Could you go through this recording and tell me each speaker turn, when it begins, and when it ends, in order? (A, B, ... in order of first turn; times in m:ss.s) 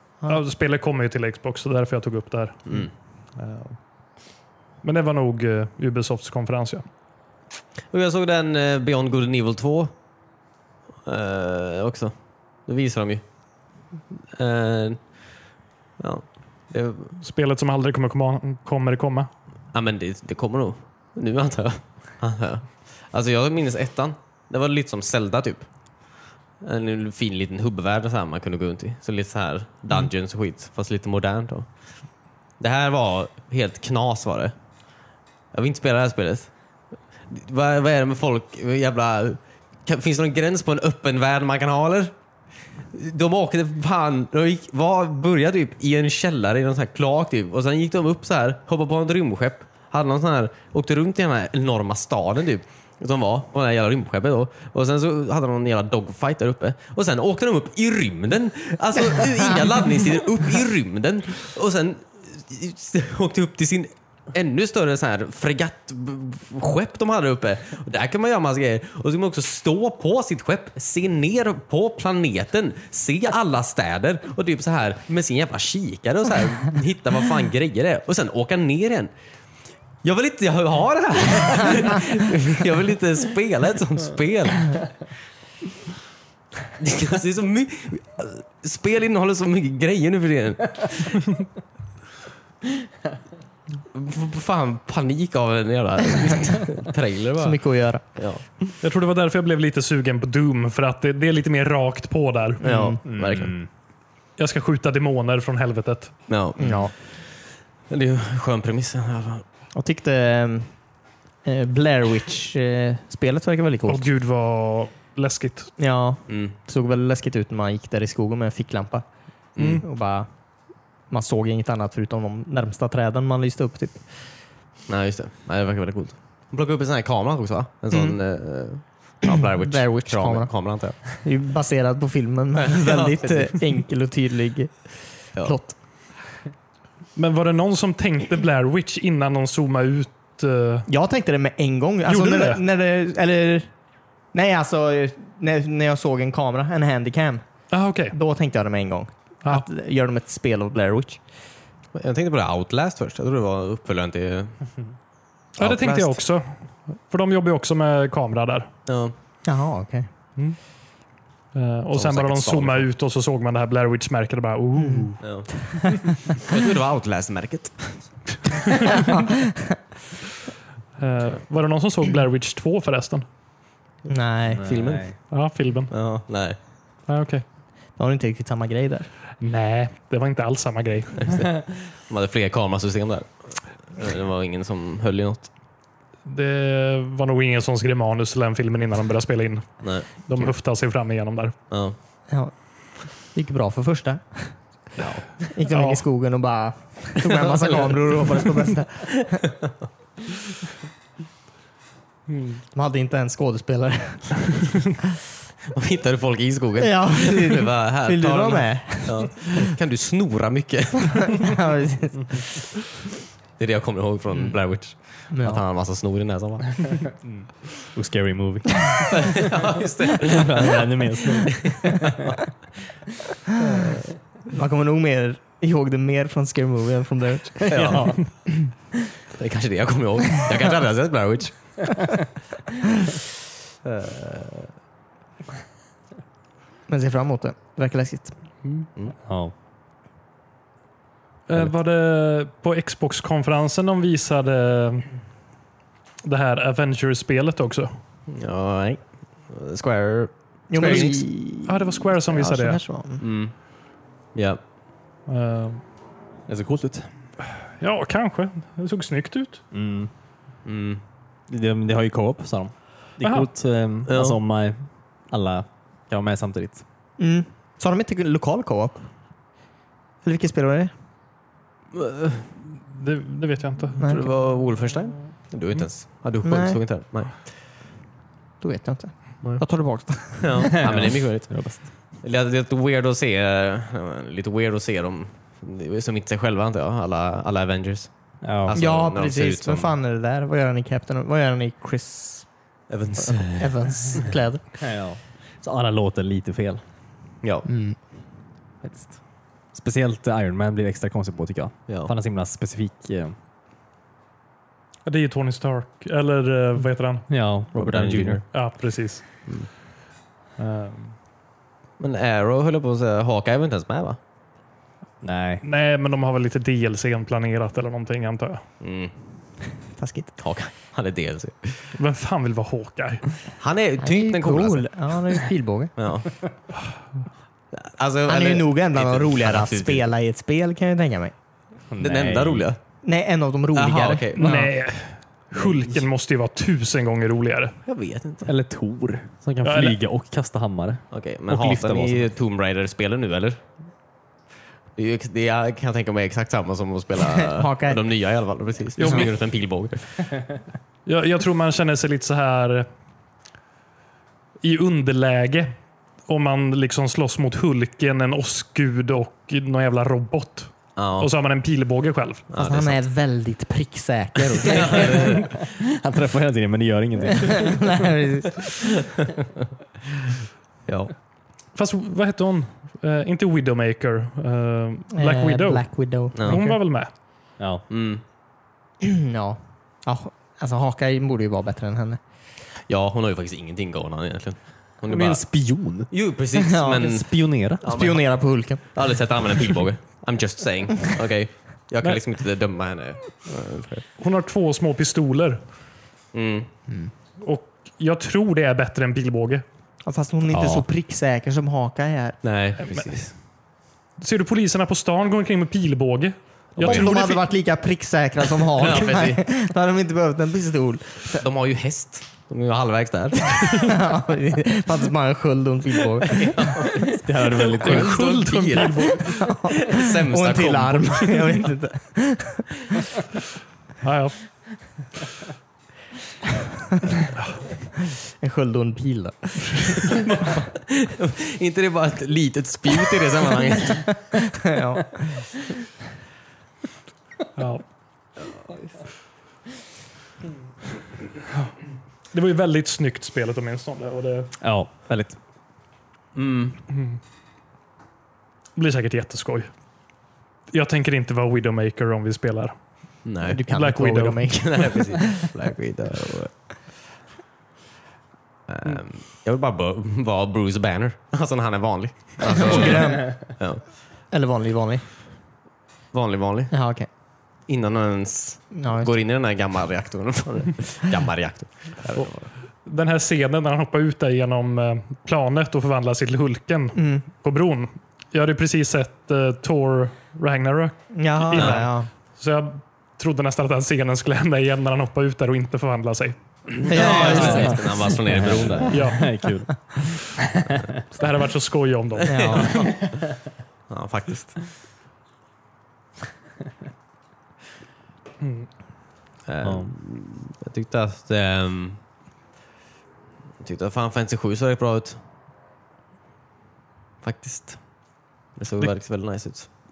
0:00.3-0:02.6 A
0:03.4-0:03.8 A
0:04.8-0:06.8 A
0:07.9-0:09.9 B
0:11.0-0:12.1 B
0:12.6-0:13.2 B
0:14.4-0:15.0 B
0:16.0-0:17.2 B
0:17.2-0:19.3 A
0:19.7-0:25.7 B
0:26.6-0:31.7 B
0:32.6-0:34.5 B
0:35.5-0:36.5 B
0:37.3-0:42.1 B
0:42.9-1:19.1 B
1:20.0-1:24.9 B
1:26.8-1:31.2 B
1:33.9-1:37.6 B
1:37.4-1:38.0 C
1:38.2-1:38.4 B
1:38.8-1:42.7 A
1:42.6-1:43.0 C
1:42.6-1:43.5 B
1:43.0-1:43.7 D
1:44.4-1:46.1 A
1:46.3-1:47.3 B
1:46.6-1:46.9 C
1:47.9-1:49.4 B
1:49.7-1:50.7 C
1:51.4-1:54.1 C
1:53.9-1:55.7 A
1:55.8-1:59.0 C
1:56.3-1:56.5 B
1:59.6-1:59.8 B
1:59.6-1:59.8 A
1:59.7-2:00.3 C
2:01.1-2:04.0 C
2:04.9-2:11.0 B
2:07.9-2:08.2 C
2:09.3-2:15.7 C
2:12.7-2:13.5 B
2:17.2-2:20.9 A
2:20.9-2:23.7 C
2:22.0-2:22.6 A
2:24.3-2:27.4 C
2:27.7-2:28.1 A
2:28.1-2:31.2 C
2:31.9-2:34.6 B
2:35.6-2:38.7 A
2:35.6-2:36.2 B
2:38.9-2:39.1 B
2:39.4-2:40.1 C
2:41.5-2:45.2 A
2:41.9-2:42.9 B
2:44.8-2:45.0 C
2:45.2-2:48.8 B
2:48.9-2:49.8 C
2:51.0-2:53.2 A
2:54.1-2:54.7 C
2:54.5-2:55.2 D
2:54.6-2:55.3 B
2:55.3-2:55.9 A
2:55.9-2:56.6 B
2:57.1-2:57.4 A
2:58.0-2:59.1 C
2:59.4-3:01.4 A
3:01.2-3:05.5 B
3:06.2-3:11.5 A
3:09.8-3:10.5 B
3:11.7-3:11.9 B
3:12.3-3:14.5 C
3:15.0-3:15.2 B
3:15.5-3:19.5 C
3:15.6-3:16.0 A
3:17.3-3:17.9 B
3:22.3-3:22.6 A
3:22.7-3:25.0 C
3:25.7-3:31.5 B
3:26.8-3:29.7 C
3:31.0-3:32.4 C
3:33.6-3:37.0 B
3:34.3-3:34.6 C
3:35.3-3:35.6 C
3:37.2-3:39.5 D
3:39.1-3:40.9 B
3:40.2-3:42.1 D
3:41.4-3:42.4 B
3:43.6-3:44.0 B
3:44.5-3:48.7 C
3:47.6-3:48.2 B
3:47.8-3:48.1 D
3:49.4-3:51.8 B
3:53.8-3:54.7 B
3:56.9-3:58.3 C
3:59.2-3:59.5 D
4:01.5-4:05.1 A
4:06.2-4:07.9 A
4:08.3-4:11.2 B
4:10.7-4:13.2 C
4:10.8-4:12.8 A
4:13.2-4:13.5 B
4:14.3-4:14.6 B
4:15.3-4:15.8 A
4:16.5-4:17.1 D
4:17.8-4:19.6 A
4:19.7-4:20.1 D
4:20.6-4:21.0 B
4:21.5-4:24.8 D
4:23.2-4:23.5 A
4:24.1-4:24.4 B
4:25.3-4:26.8 D
4:27.2-4:29.0 C
4:30.2-4:30.9 C
4:31.9-4:32.5 B
4:32.9-4:34.0 A
4:34.0-4:34.3 C
4:34.0-4:37.5 B
4:36.4-4:36.8 C
4:38.6-4:40.7 C
4:40.4-4:48.1 B
4:40.7-4:41.9 D
4:48.4-4:48.8 D
4:48.6-4:50.0 B
4:48.7-4:52.5 C
4:52.9-4:54.2 B
4:53.2-4:54.7 C
4:54.8-4:56.8 D
4:57.6-4:58.0 C
4:58.8-4:59.2 D
4:59.7-5:03.3 D
5:01.9-5:02.1 B
5:05.0-5:07.3 A
5:07.3-5:08.4 D
5:07.7-5:08.4 B
5:08.5-5:09.2 A
5:10.6-5:11.1 A
5:12.0-5:14.2 B
5:15.2-5:15.6 D
5:15.6-5:18.6 A
5:18.8-5:19.1 B
5:20.0-5:20.3 C
5:20.4-5:21.9 B
5:21.9-5:23.2 A
5:23.6-5:24.9 B
5:24.0-5:25.9 C
5:26.0-5:26.3 B
5:27.7-5:30.1 B
5:28.3-5:31.3 C
5:31.9-5:32.7 D
5:32.0-5:32.8 B
5:33.0-5:34.7 C
5:33.7-5:34.7 B
5:34.4-5:37.7 A
5:37.8-5:38.5 B
5:38.4-5:42.3 D
5:39.6-5:40.0 A
5:41.1-5:43.6 B
5:45.0-5:50.3 B
5:47.2-5:48.0 C
5:49.0-5:49.3 A
5:51.0-5:52.9 A
5:54.6-5:55.7 A
5:56.3-6:02.5 A
6:01.0-6:01.3 B
6:02.5-6:03.0 B
6:02.6-6:05.6 C
6:04.4-6:05.5 B
6:05.2-6:07.9 D
6:07.3-6:09.0 C
6:10.9-6:11.1 B
6:11.7-6:17.1 A
6:15.1-6:16.7 C
6:16.3-6:16.6 B
6:17.9-6:18.2 B
6:19.0-6:22.2 C
6:22.8-6:25.5 B
6:25.1-6:26.1 D
6:26.1-6:27.3 B
6:26.5-6:27.2 C
6:27.0-6:27.8 D
6:27.8-6:28.2 B
6:27.8-6:28.8 C
6:28.8-6:34.0 B
6:34.2-6:35.6 A
6:36.3-6:36.7 B
6:37.4-6:39.6 A
6:40.0-6:42.4 C
6:40.5-6:40.8 B
6:42.4-6:43.3 B
6:42.8-6:43.3 A
6:44.2-6:47.4 A
6:46.8-6:47.1 B
6:46.8-6:51.4 C
6:48.7-6:49.4 B
6:51.4-6:54.0 B
6:53.8-6:56.9 C
6:56.2-7:01.7 B
6:57.1-6:58.2 D
6:57.8-6:59.4 A
6:58.9-7:03.0 C
7:04.0-7:04.4 A
7:08.4-7:10.2 C
7:10.7-7:14.2 B
7:14.2-7:15.6 C
7:17.6-7:17.8 A
7:22.3-7:24.5 A
7:24.6-7:25.4 D
7:26.3-7:26.8 B
7:26.9-7:27.2 A
7:28.8-7:29.7 A
7:30.7-7:32.7 A
7:33.2-7:33.6 B
7:33.4-7:35.4 C
7:33.7-7:34.5 A
7:34.5-7:36.5 B
7:38.7-7:43.8 B
7:42.5-7:43.5 C
7:44.3-7:45.0 C
7:46.1-7:46.7 B
7:46.7-7:47.1 C
7:47.7-7:52.5 B
7:48.7-7:49.1 C
7:52.8-8:07.6 A
7:56.9-7:57.2 C
8:01.1-8:02.1 C
8:01.5-8:01.8 B
8:06.8-8:09.1 B
8:06.9-8:08.0 C
8:07.2-8:10.8 D
8:08.9-8:09.2 A
8:11.1-8:12.8 A
8:12.2-8:13.0 B
8:12.2-8:13.0 C
8:13.9-8:14.7 B
8:18.4-8:18.7 A
8:19.5-8:22.0 B
8:19.6-8:19.9 D
8:23.6-8:25.2 B
8:27.2-8:27.8 B
8:28.6-8:29.7 B